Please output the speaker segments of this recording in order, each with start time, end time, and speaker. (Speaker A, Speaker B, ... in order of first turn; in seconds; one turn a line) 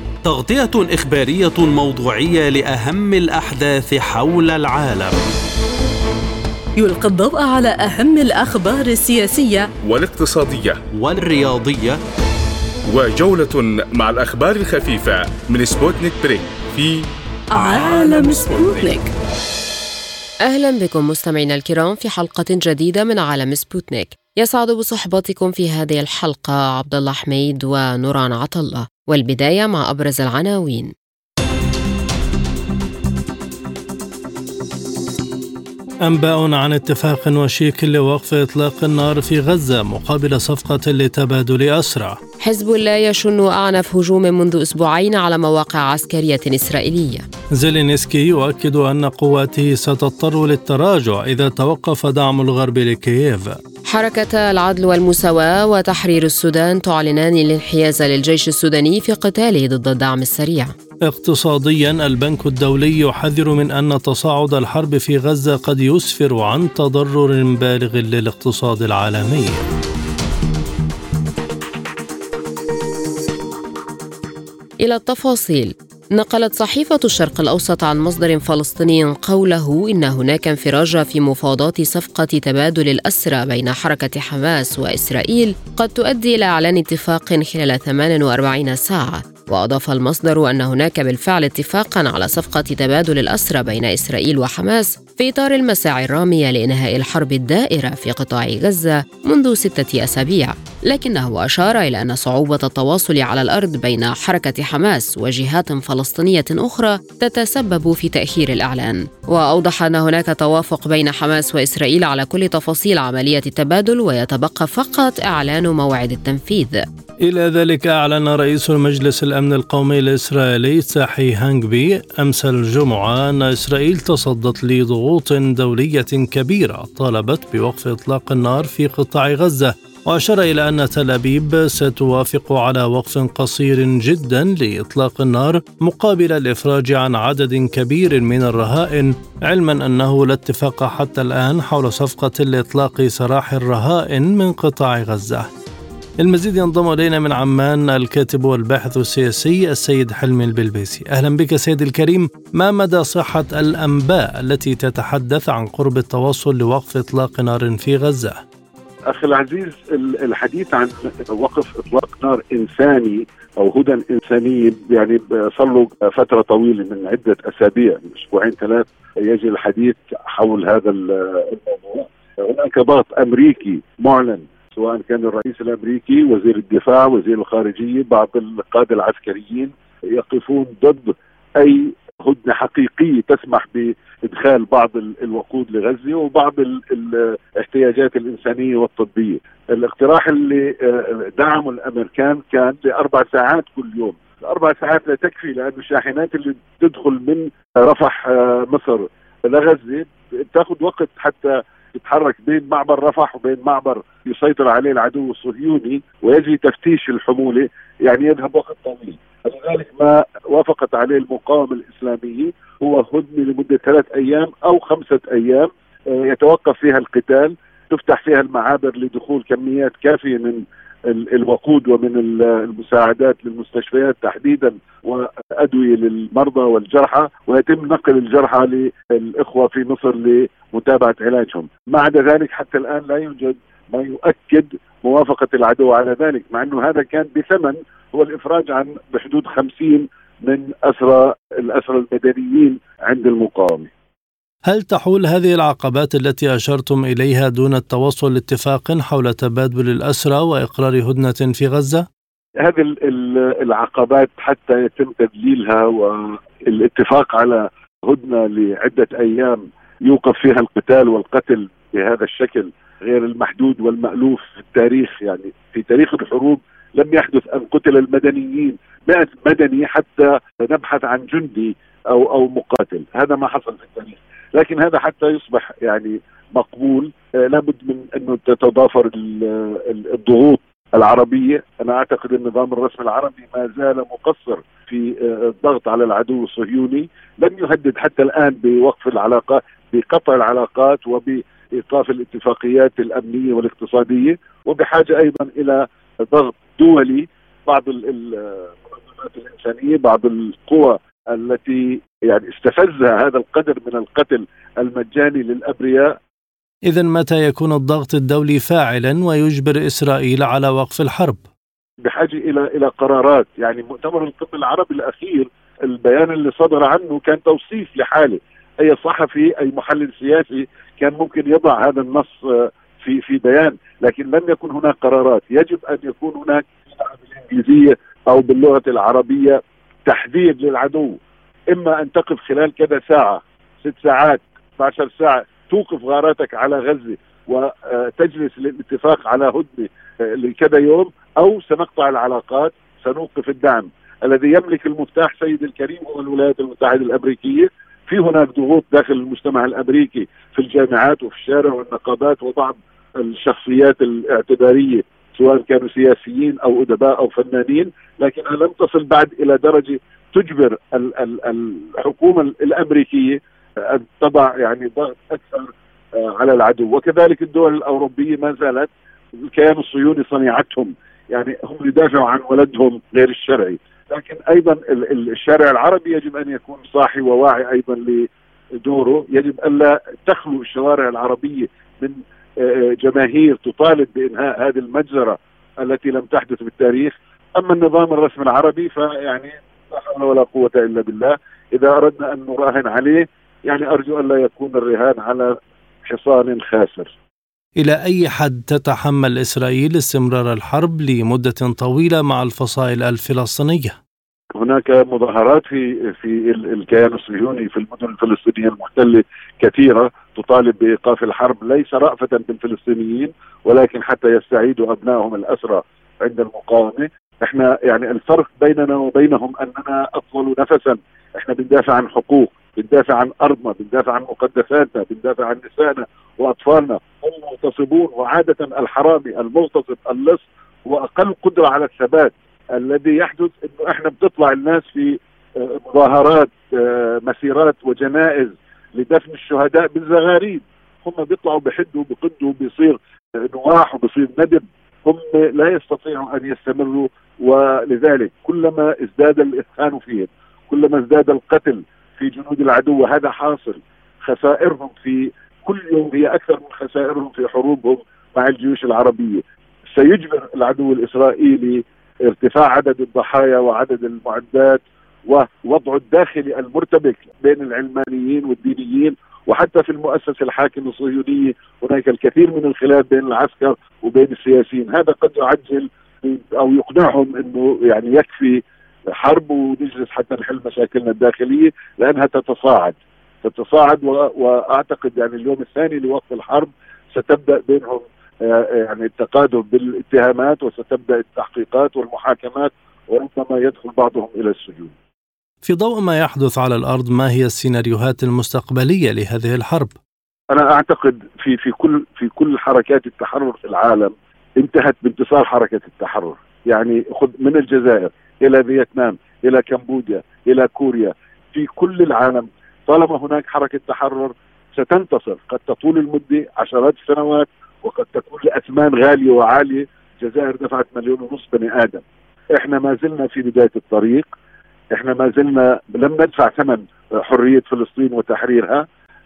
Speaker A: 0.2-5.2
Speaker B: 6.8-9.7
Speaker C: 9.8-10.8
Speaker A: 10.9-12.0
Speaker C: 12.9-18.9
Speaker B: 17.5-19.1
Speaker D: 20.4-30.9
Speaker E: 36.0-42.2
Speaker D: 42.4-47.3
Speaker E: 47.5-53.6
Speaker D: 53.9-60.7
Speaker E: 61.1-69.7
Speaker D: 74.8-116.8
Speaker E: 117.2-145.5
Speaker E: 146.2-158.4
Speaker F: 159.1-243.9
Speaker E: 244.7-252.1
Speaker F: 252.6-306.2
Speaker E: 306.9-311.4
Speaker F: 312.0-331.2
Speaker F: 331.7-397.2
Speaker E: 397.8-403.9
Speaker F: 404.6-494.9
Speaker E: 495.6-499.9
Speaker F: 500.5-522.0
Speaker F: 522.5-524.3
Speaker F: 524.9-528.9